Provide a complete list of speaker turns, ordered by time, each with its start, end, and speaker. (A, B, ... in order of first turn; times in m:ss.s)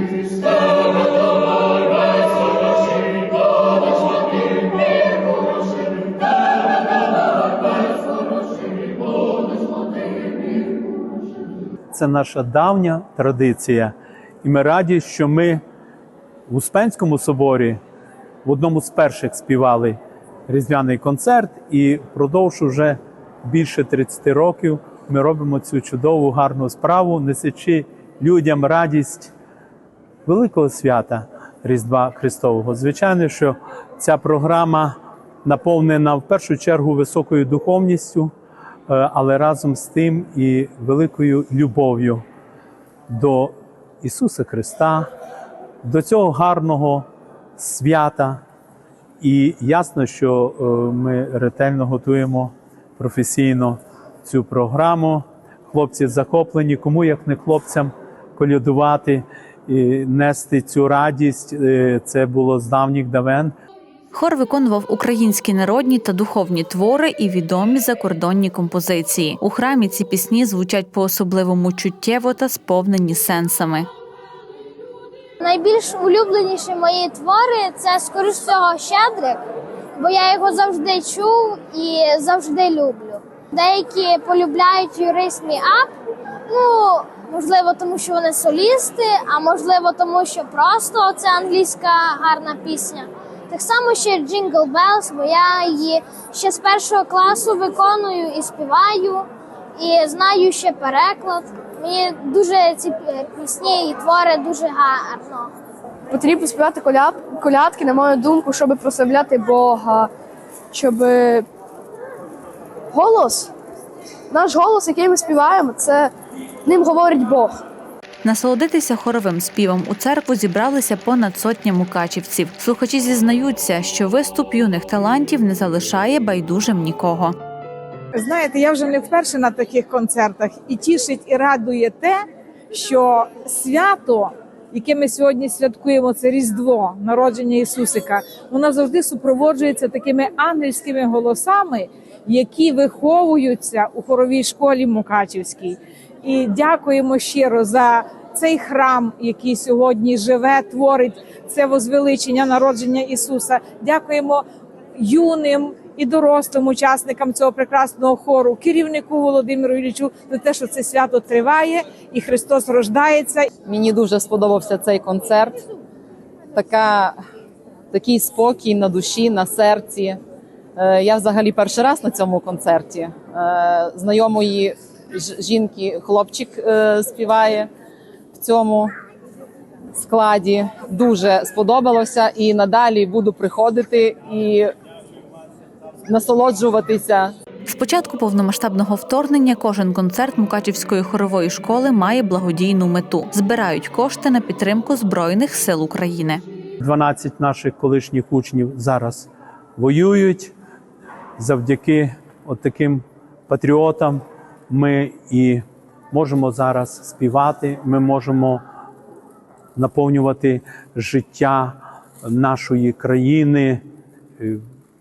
0:11.9-0:15.6 A
0:16.5-0:17.8 A
0:18.4-0:20.0 A
0:20.5-0:29.3 A
0:30.2-0:38.3 A
0:38.9-0:42.2 A
0:43.1-0:45.1 A
0:45.8-0:47.0 A
0:47.6-0:48.4 A
0:49.2-1:03.5 A
1:04.1-1:13.9 B
1:15.4-1:19.4 C
1:20.0-1:25.9 C
1:26.5-1:45.5 C
1:46.1-1:50.1 D
1:50.7-1:51.4 D
1:52.9-1:53.5 D
1:54.3-1:56.1 D
1:56.7-1:57.6 D
1:58.2-2:07.3 B
2:08.1-2:12.2 E
2:12.7-2:34.4 E
2:35.0-2:43.5 E
2:43.6-2:45.6 F
2:46.5-2:47.2 F
2:47.9-2:50.2 F
2:50.8-2:57.7 F
2:58.3-2:58.9 F
2:59.9-3:04.7 F
3:06.1-3:07.3 F
3:07.7-3:16.4 B
3:16.8-3:20.5 A
3:21.4-3:28.6 A
3:29.8-3:33.8 A